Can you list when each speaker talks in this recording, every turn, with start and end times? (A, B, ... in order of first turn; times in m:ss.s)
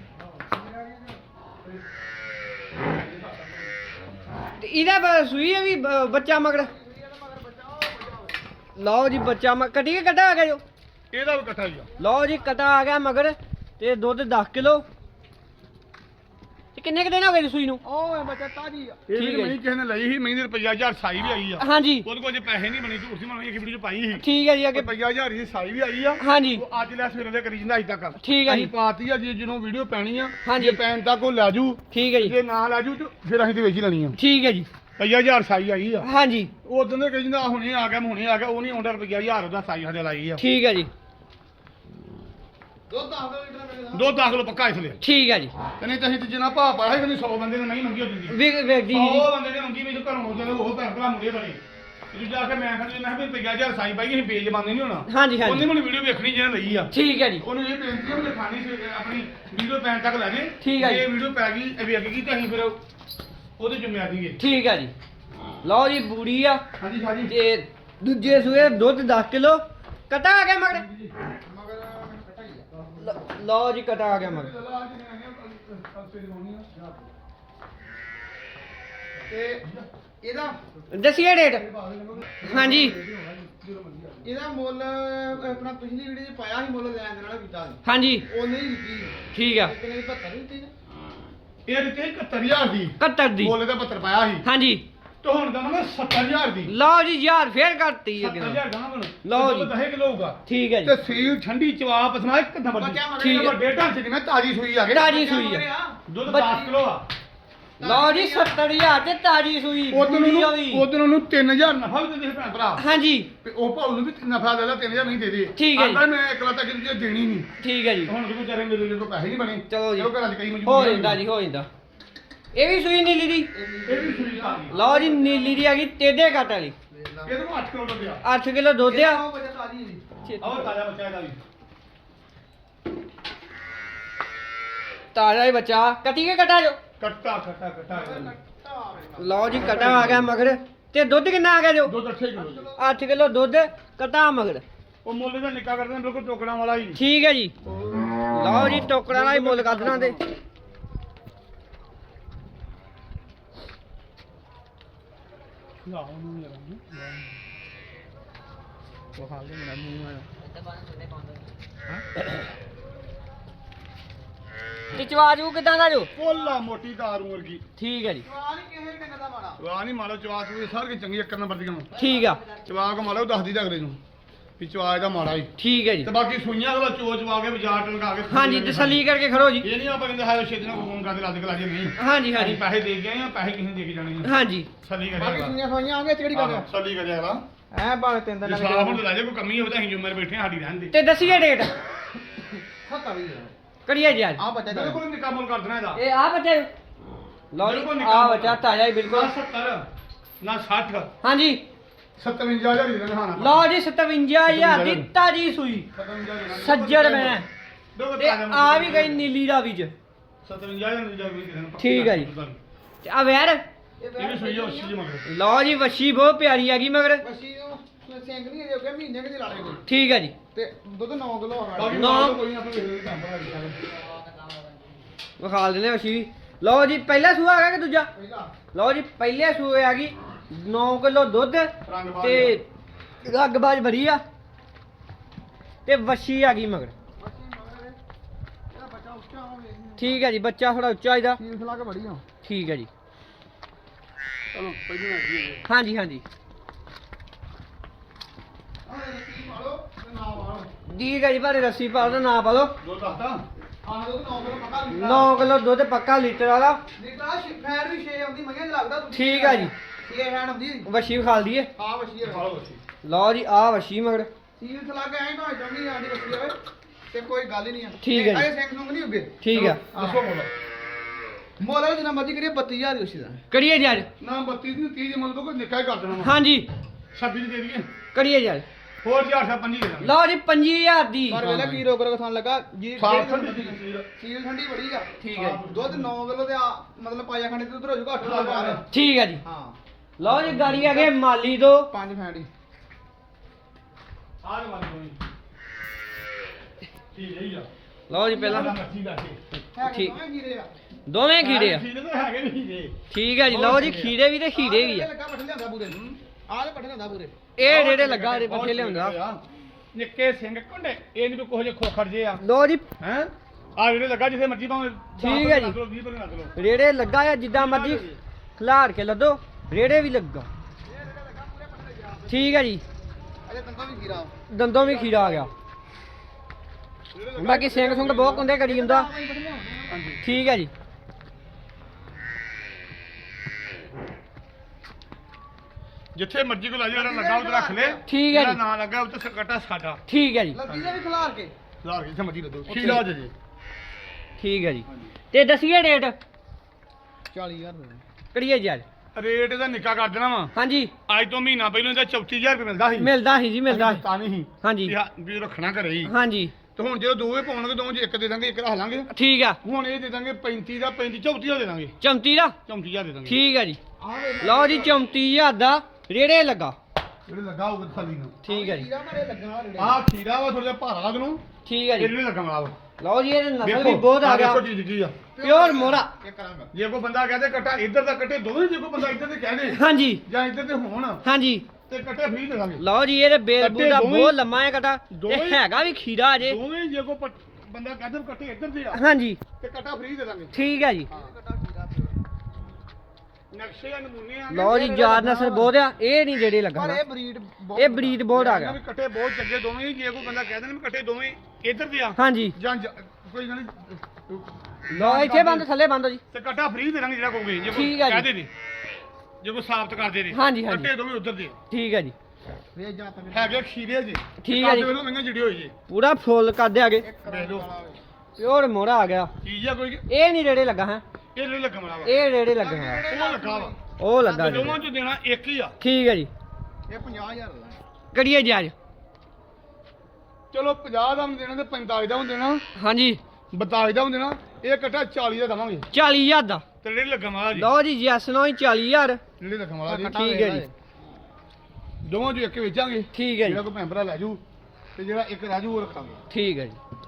0:00.2-0:01.2 A
0:02.8-0:03.6 B
0:04.6-0:06.7 C
0:06.3-0:08.4 A
0:08.8-0:10.6 C
0:11.1-0:11.9 B
0:12.0-0:14.8 C
0:16.8-0:17.8 C
0:17.8-0:19.0 A
0:19.1-0:34.2 B
0:19.1-0:19.6 C
0:21.6-0:22.1 C
0:24.2-0:24.9 C
0:26.2-0:26.6 C
0:28.2-0:28.7 C
0:30.4-0:30.8 C
0:31.9-0:32.3 C
0:34.2-0:34.7 C
0:35.0-0:36.0 B
0:36.0-0:36.5 C
0:36.6-0:40.4 B
0:40.4-0:40.9 C
0:42.9-0:44.2 A
0:43.9-0:45.0 B
0:45.0-0:45.5 C
0:45.8-0:48.4 B
0:48.3-0:49.3 C
0:48.9-1:02.8 B
0:55.1-0:55.7 C
0:56.9-0:57.4 C
1:00.6-1:01.0 C
1:03.6-1:04.4 B
1:04.4-1:04.9 C
1:05.6-1:06.6 C
1:06.8-1:07.3 B
1:07.3-1:10.8 C
1:10.7-1:11.1 B
1:11.4-1:12.8 A
1:13.0-1:14.5 C
1:14.1-1:16.7 B
1:19.3-1:19.7 A
1:19.6-1:19.9 B
1:20.2-1:20.6 A
1:20.9-1:21.6 C
1:21.5-1:24.3 B
1:22.4-1:22.9 C
1:24.2-1:30.7 A
1:27.8-1:28.2 C
1:29.3-1:29.7 C
1:31.6-1:34.4 B
1:33.0-1:33.6 C
1:34.4-1:34.8 C
1:35.2-1:36.7 B
1:36.7-1:38.6 C
1:38.2-1:45.1 B
1:39.2-1:39.7 C
1:40.4-1:40.9 C
1:42.7-1:43.5 A
1:43.2-1:43.5 C
1:44.9-1:45.6 C
1:45.0-1:46.6 A
1:46.1-1:47.1 B
1:46.2-1:46.6 C
1:47.8-1:48.7 A
1:47.8-1:50.8 C
1:49.9-1:52.8 B
1:52.8-1:53.3 C
1:53.4-1:57.5 B
1:55.6-1:56.0 C
1:57.6-1:58.1 C
1:58.0-2:01.2 B
1:59.7-2:00.1 C
2:00.6-2:01.7 C
2:02.5-2:03.5 C
2:03.5-2:05.6 A
2:03.8-2:04.8 B
2:04.7-2:06.7 C
2:06.9-2:07.3 A
2:07.2-2:08.2 B
2:08.2-2:09.2 C
2:08.8-2:10.0 A
2:10.2-2:10.7 C
2:10.4-2:11.4 B
2:15.1-2:16.8 C
2:17.0-2:18.3 B
2:17.9-2:19.7 A
2:19.2-2:21.9 C
2:19.6-2:20.3 B
2:21.8-2:22.7 B
2:22.3-2:23.0 A
2:22.8-2:24.6 C
2:25.0-2:27.0 B
2:27.0-2:27.5 C
2:27.7-2:28.0 B
2:28.3-2:30.2 C
2:29.1-2:30.3 B
2:35.8-2:37.3 B
2:39.2-2:40.2 B
2:39.8-2:40.2 A
2:44.9-2:46.1 C
2:46.1-2:47.6 B
2:47.8-2:48.2 C
2:48.2-2:49.6 A
2:49.6-2:51.9 B
2:51.9-2:52.8 A
2:52.0-2:52.4 C
2:52.6-2:54.0 B
2:54.6-2:55.5 B
2:55.6-2:56.1 C
2:56.0-2:59.0 B
2:58.3-2:59.7 C
2:59.6-3:04.3 B
3:02.0-3:02.6 C
3:04.2-3:04.7 C
3:04.8-3:05.5 B
3:05.2-3:06.7 A
3:06.3-3:07.4 B
3:07.7-3:09.0 A
3:08.4-3:10.9 B
3:10.9-3:11.8 C
3:12.8-3:13.5 A
3:13.8-3:14.4 C
3:14.4-3:15.0 A
3:14.7-3:16.0 B
3:15.9-3:16.7 C
3:17.5-3:19.3 C
3:17.6-3:19.9 B
3:20.4-3:21.1 B
3:21.2-3:21.6 C
3:22.2-3:23.7 B
3:23.4-3:25.9 C
3:24.4-3:25.1 B
3:25.9-3:27.4 B
3:26.5-3:27.4 C
3:27.9-3:29.3 B
3:28.2-3:29.9 C
3:30.4-3:32.6 B
3:31.8-3:32.3 C
3:33.0-3:33.6 C
3:34.0-3:35.0 A
3:34.2-3:35.2 B
3:35.2-3:37.2 C
3:37.2-3:39.8 A
3:39.9-3:40.3 C
3:40.5-3:42.3 A
3:41.7-3:43.8 B
3:41.9-3:42.4 C
3:44.2-3:44.5 A
3:45.4-3:48.1 C
3:48.1-3:48.5 A
3:48.7-3:52.6 C
3:51.8-3:52.6 B
3:53.2-3:54.2 C
3:55.8-3:56.9 C
3:57.2-3:58.0 A
3:58.7-4:00.2 A
4:00.0-4:01.4 C
4:01.4-4:02.2 A
4:02.4-4:02.9 C
4:04.5-4:05.6 B
4:05.7-4:06.2 C
4:08.8-4:10.7 A
4:10.9-4:12.7 C
4:12.8-4:13.4 B
4:13.8-4:15.3 A
4:14.9-4:16.8 C
4:17.0-4:20.9 A
4:19.1-4:19.7 C
4:20.8-4:21.7 C
4:21.8-4:22.5 A
4:22.2-4:22.8 B
4:23.0-4:24.3 C
4:24.6-4:26.6 A
4:27.1-4:29.4 A
4:28.0-4:28.5 C
4:29.4-4:29.8 C
4:29.5-4:30.5 B
4:29.9-4:30.2 A
4:31.6-4:33.4 A
4:33.5-4:34.1 C
4:34.2-4:36.4 B
4:36.1-4:36.6 C
4:37.1-4:37.9 B
4:38.1-4:38.6 C
4:39.0-4:40.1 B
4:40.0-4:41.4 C
4:41.3-4:48.8 A
4:41.4-4:41.8 B
4:43.0-4:44.1 B
4:45.2-4:45.6 C
4:45.3-4:46.1 B
4:48.2-4:48.9 B
4:48.9-4:49.4 C
4:49.4-4:49.8 A
4:50.2-4:51.9 C
4:50.3-4:50.8 B
4:50.4-4:51.1 A
4:51.9-4:52.5 A
4:54.4-4:55.2 B
4:57.1-4:57.7 B
4:58.1-4:58.7 C
4:58.1-4:58.7 A
4:58.3-4:59.4 B
4:59.7-5:00.7 A
4:59.9-5:00.1 C
5:01.1-5:01.8 C
5:01.4-5:02.9 B
5:03.1-5:05.1 C
5:03.5-5:07.4 A
5:05.9-5:06.2 B
5:07.6-5:09.1 C
5:07.6-5:09.4 B
5:09.9-5:12.4 B
5:12.4-5:12.8 C
5:13.0-5:16.5 B
5:15.2-5:15.8 C
5:16.6-5:18.0 C
5:17.5-5:18.2 B
5:18.6-5:20.5 C
5:20.8-5:22.6 A
5:22.3-5:22.8 C
5:23.4-5:24.3 A
5:24.5-5:25.5 C
5:24.8-5:25.5 B
5:27.1-5:28.5 B
5:27.4-5:29.1 C
5:28.4-5:30.0 A
5:29.9-5:30.2 B
5:30.2-5:30.7 C
5:36.1-5:40.0 B
5:36.9-5:38.1 A
5:38.1-5:38.6 C
5:40.1-5:40.6 C
5:40.5-5:41.5 A
5:40.7-5:40.9 B
5:41.8-5:43.3 B
5:42.7-5:43.0 C
5:44.4-5:46.2 C
5:47.3-5:48.0 A
5:48.3-5:48.8 C
5:49.1-5:50.5 B
5:50.5-5:50.9 C
5:51.1-5:53.1 B
5:53.0-5:54.0 C
5:53.7-5:56.1 B
5:54.6-5:54.9 C
5:56.0-5:56.5 C
5:56.7-5:59.1 B
5:59.1-5:59.6 C
5:59.6-6:01.9 B
6:02.0-6:02.6 C
6:02.6-6:03.4 B
6:03.2-6:03.8 C
6:04.0-6:05.0 A
6:04.4-6:06.8 C
6:07.3-6:08.4 B
6:08.4-6:08.9 C
6:08.4-6:10.0 A
6:09.8-6:11.4 B
6:11.6-6:12.1 C
6:12.0-6:12.8 B
6:13.0-6:14.6 C
6:13.6-6:15.2 B
6:15.3-6:16.7 A
6:15.4-6:16.1 C
6:16.7-6:21.2 B
6:19.7-6:20.2 C
6:21.2-6:21.6 C
6:21.9-6:22.8 B
6:22.8-6:26.6 C
6:23.6-6:24.4 B
6:25.1-6:25.7 B
6:26.4-6:29.0 B
6:28.9-6:29.4 C
6:29.6-6:30.5 B
6:30.5-6:31.1 C
6:31.1-6:32.2 A
6:33.5-6:35.0 B
6:34.5-6:37.0 C
6:34.7-6:35.7 A
6:36.7-6:38.2 A
6:37.8-6:38.8 C
6:38.3-6:45.7 B
6:42.2-6:42.5 C
6:44.9-6:46.2 C
6:46.3-6:48.5 B
6:47.7-6:48.3 C
6:49.4-6:51.6 B
6:50.3-6:50.9 C
6:51.7-6:52.1 C
6:52.7-6:53.6 A
6:53.3-6:55.7 B
6:54.4-6:54.9 C
6:55.9-6:57.0 C
6:57.0-6:58.0 A
6:57.2-6:57.7 B
6:58.4-6:59.3 C
6:59.4-7:00.0 B
7:00.1-7:01.0 C
7:01.3-7:02.1 B
7:02.0-7:03.0 C
7:02.5-7:03.8 A
7:03.1-7:05.7 B
7:04.0-7:04.8 C
7:05.8-7:06.3 C
7:06.9-7:07.8 A
7:08.1-7:08.7 C
7:10.5-7:12.6 B
7:12.8-7:13.2 C
7:13.5-7:15.9 B
7:15.9-7:16.6 C
7:16.8-7:17.7 B
7:17.5-7:19.2 C
7:19.4-7:20.2 B
7:19.8-7:20.7 A
7:20.1-7:20.6 C
7:22.0-7:24.4 B
7:23.1-7:23.6 C
7:25.0-7:26.2 B
7:26.3-7:26.8 C